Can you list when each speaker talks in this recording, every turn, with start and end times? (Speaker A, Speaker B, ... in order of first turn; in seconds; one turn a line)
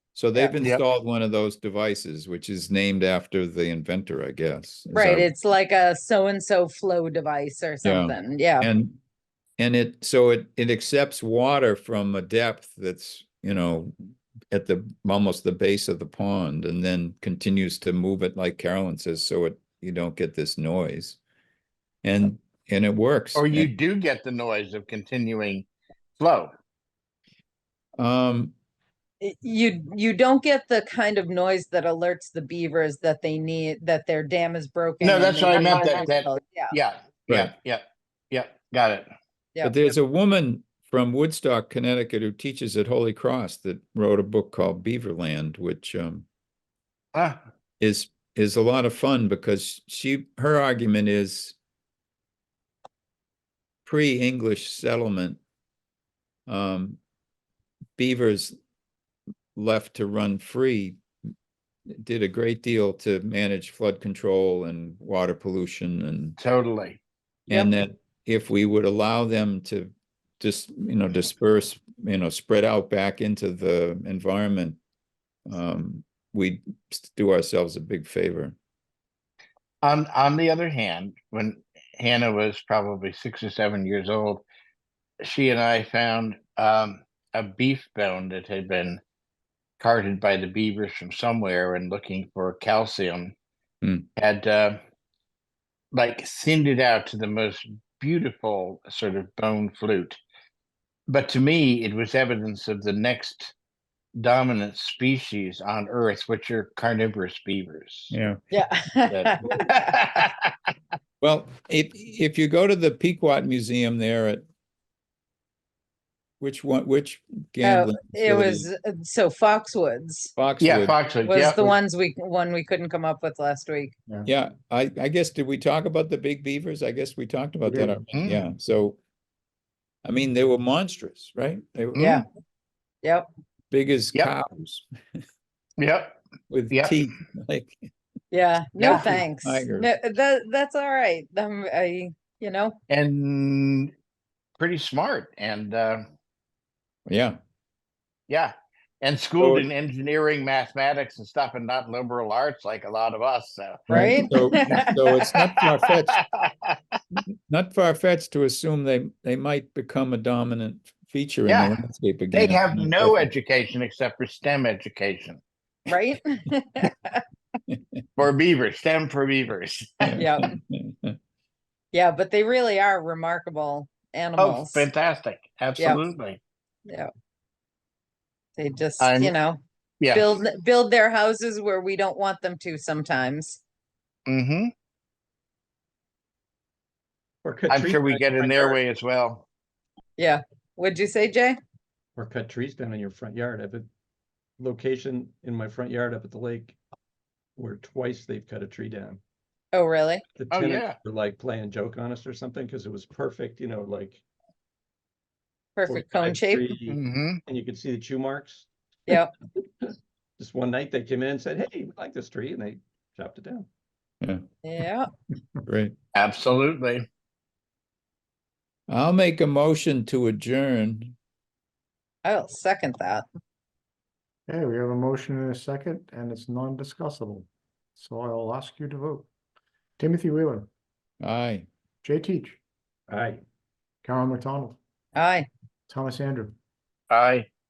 Speaker A: 0.1-5.3
Speaker B: 4.9-8.7
Speaker A: 7.8-9.0
Speaker A: 9.6-13.9
Speaker A: 14.5-21.2
Speaker A: 22.0-23.7
Speaker C: 23.3-25.7
Speaker C: 26.2-26.5
Speaker A: 28.0-28.5
Speaker B: 29.2-36.8
Speaker C: 35.0-39.1
Speaker A: 37.3-37.5
Speaker A: 39.6-46.3
Speaker C: 47.1-47.4
Speaker A: 47.8-51.6
Speaker A: 53.8-55.4
Speaker A: 56.5-57.0
Speaker A: 58.0-58.5
Speaker A: 59.5-61.0
Speaker A: 61.9-66.4
Speaker C: 66.4-67.0
Speaker A: 67.5-74.8
Speaker A: 75.5-78.5
Speaker C: 79.8-84.4
Speaker C: 85.2-89.0
Speaker C: 89.8-93.3
Speaker A: 93.8-94.1
Speaker C: 94.2-94.8
Speaker C: 95.9-100.2
Speaker C: 101.1-103.5
Speaker C: 104.2-108.2
Speaker A: 108.1-108.4
Speaker B: 108.5-110.0
Speaker C: 109.1-110.5
Speaker A: 111.2-114.4
Speaker A: 116.4-118.7
Speaker B: 117.6-120.3
Speaker A: 120.3-121.0
Speaker C: 120.6-121.7
Speaker B: 121.2-123.9
Speaker A: 124.2-129.0
Speaker D: 127.6-128.0
Speaker C: 128.1-128.4
Speaker A: 130.0-132.1
Speaker C: 131.9-132.2
Speaker B: 132.0-132.2
Speaker A: 133.7-134.8
Speaker C: 135.8-136.2
Speaker A: 136.5-137.8
Speaker C: 136.7-136.9
Speaker B: 138.3-142.8
Speaker A: 138.8-139.9
Speaker C: 138.8-139.1
Speaker C: 142.9-143.9
Speaker C: 144.6-146.0
Speaker A: 147.1-147.4
Speaker C: 148.3-154.1
Speaker A: 149.4-149.7
Speaker A: 153.9-156.2
Speaker B: 153.9-155.2
Speaker C: 155.2-157.0
Speaker A: 157.5-163.3
Speaker C: 161.4-161.8
Speaker C: 162.3-165.4
Speaker B: 165.9-167.2
Speaker C: 168.2-170.2
Speaker A: 170.0-171.2
Speaker B: 170.2-170.5
Speaker B: 171.9-174.9
Speaker C: 174.4-176.4
Speaker B: 178.6-179.6
Speaker C: 179.0-179.3
Speaker C: 180.0-180.4
Speaker B: 180.1-183.6
Speaker C: 184.3-184.7
Speaker E: 187.4-188.8
Speaker C: 187.7-189.4
Speaker B: 190.2-191.6
Speaker E: 192.2-193.9
Speaker E: 194.6-196.8
Speaker E: 197.6-199.2
Speaker B: 199.7-200.2
Speaker E: 200.3-204.2
Speaker C: 200.5-200.9
Speaker B: 205.8-206.6
Speaker E: 205.9-208.7
Speaker C: 206.9-207.4
Speaker E: 209.8-213.7
Speaker B: 214.6-215.1
Speaker A: 215.7-215.9
Speaker C: 216.1-217.0
Speaker A: 218.9-221.2
Speaker B: 222.2-223.2
Speaker D: 224.5-229.3
Speaker D: 230.0-230.7
Speaker A: 231.2-231.7
Speaker D: 232.0-232.6
Speaker E: 233.1-233.4
Speaker D: 234.0-234.8
Speaker B: 235.1-235.5
Speaker D: 235.9-236.6
Speaker C: 237.1-237.5